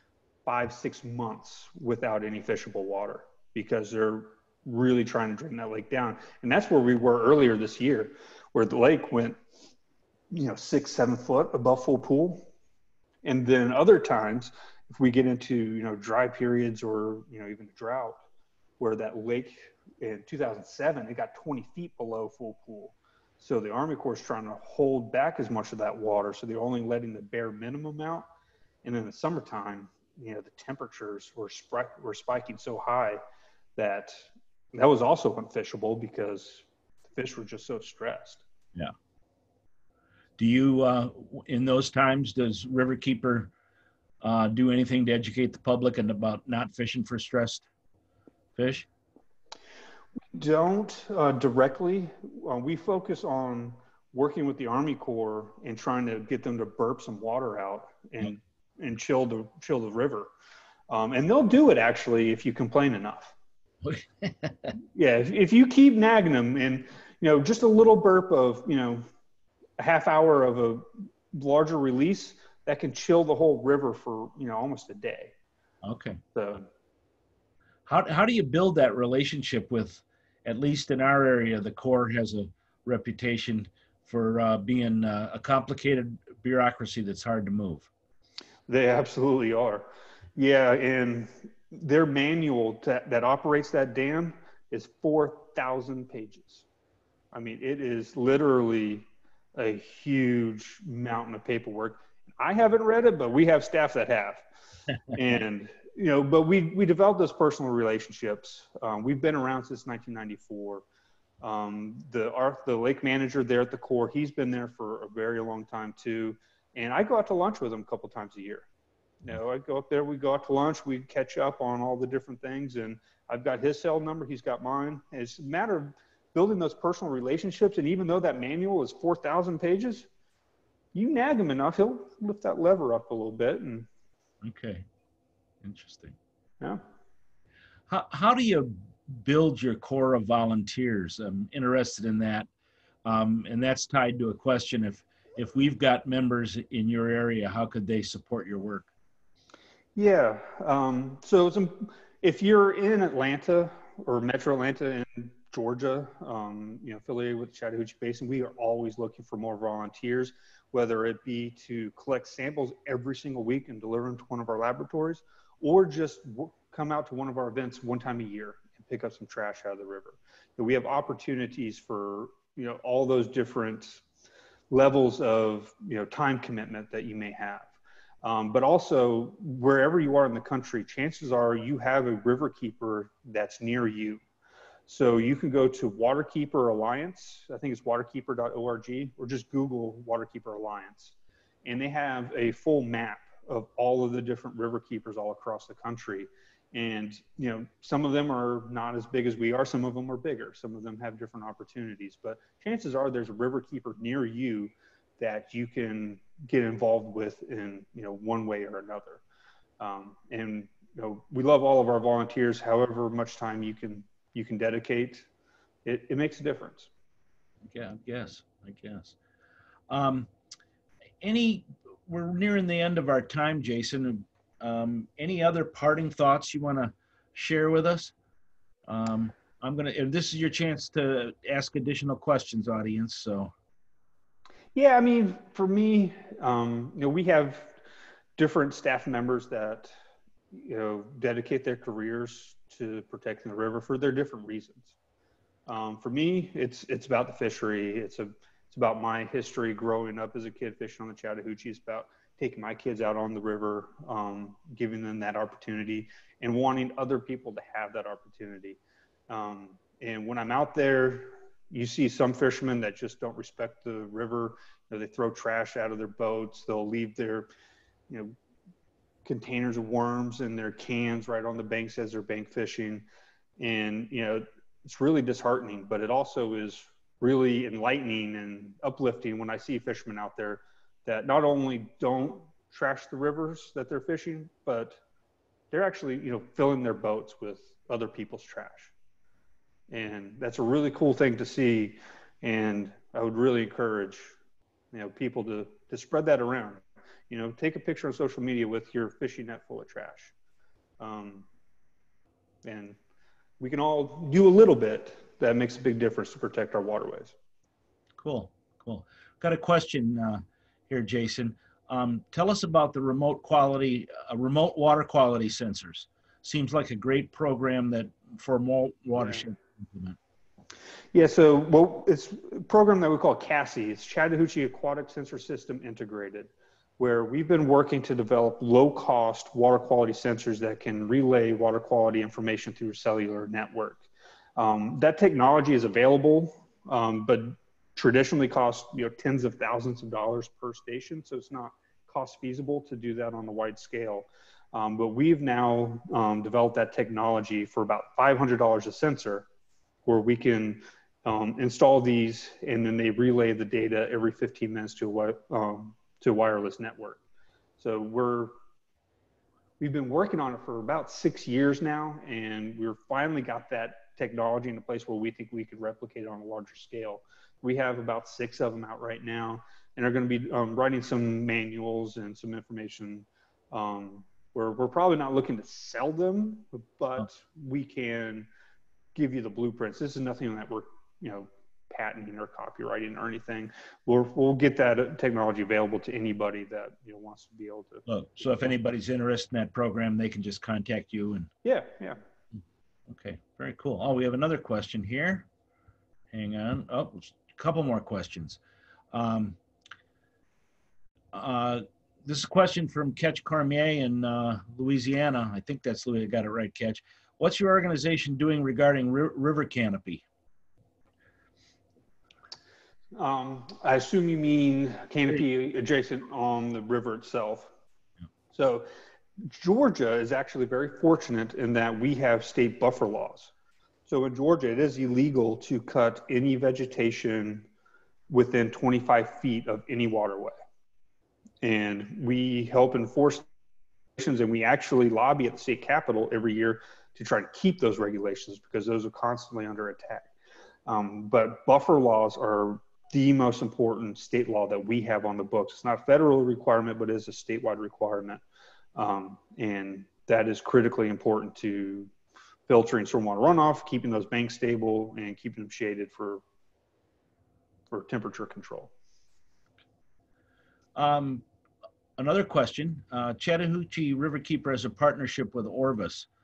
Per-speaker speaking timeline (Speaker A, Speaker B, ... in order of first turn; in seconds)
Speaker A: 0.5-9.4, 10.3-12.5, 13.2-18.2, 18.8-28.3, 28.8-33.2, 33.8-38.4, 50.4-60.3, 60.9-63.4, 64.9-69.0, 69.8-75.3, 76.3-76.7, 88.7-96.7, 97.3-104.5, 105.1-110.8, 111.4-118.7, 119.2-130.1, 130.9-133.9, 150.0-174.0, 174.7-184.2, 184.9-209.2, 209.8-215.3, 215.8-216.9, 234.8-237.8, 238.4-239.9, 240.5-244.9, 245.7-258.8, 259.3-267.5, 268.1-268.4, 269.2-273.1, 273.6-285.0, 285.7-288.9, 289.9-294.4, 294.9-300.3, 301.0-301.5, 302.6-303.0, 303.6-307.4, 321.1-349.5, 350.1-357.2, 357.8-358.6, 359.8-378.5, 379.1-388.7, 391.6-392.2, 413.2-417.7, 418.5-418.9, 419.4-423.5, 424.1-427.7, 428.3-430.6, 431.6-433.5, 434.2-440.3, 440.9-448.4, 449.0-452.1, 452.7-456.4, 457.9-458.9
Speaker B: 40.4-43.5, 44.2-47.7, 48.6-48.9, 63.8-64.7, 75.8-76.2, 77.9-87.9, 134.4-134.8, 135.6-136.2, 137.9-142.5, 143.1-148.9, 217.6-219.2, 219.9-220.3, 221.2-228.1, 228.9-233.5, 308.2-320.2, 388.1-391.5, 393.1-395.5, 396.3-398.6, 399.1-399.6, 401.3-410.2, 460.9-461.4, 462.2-466.3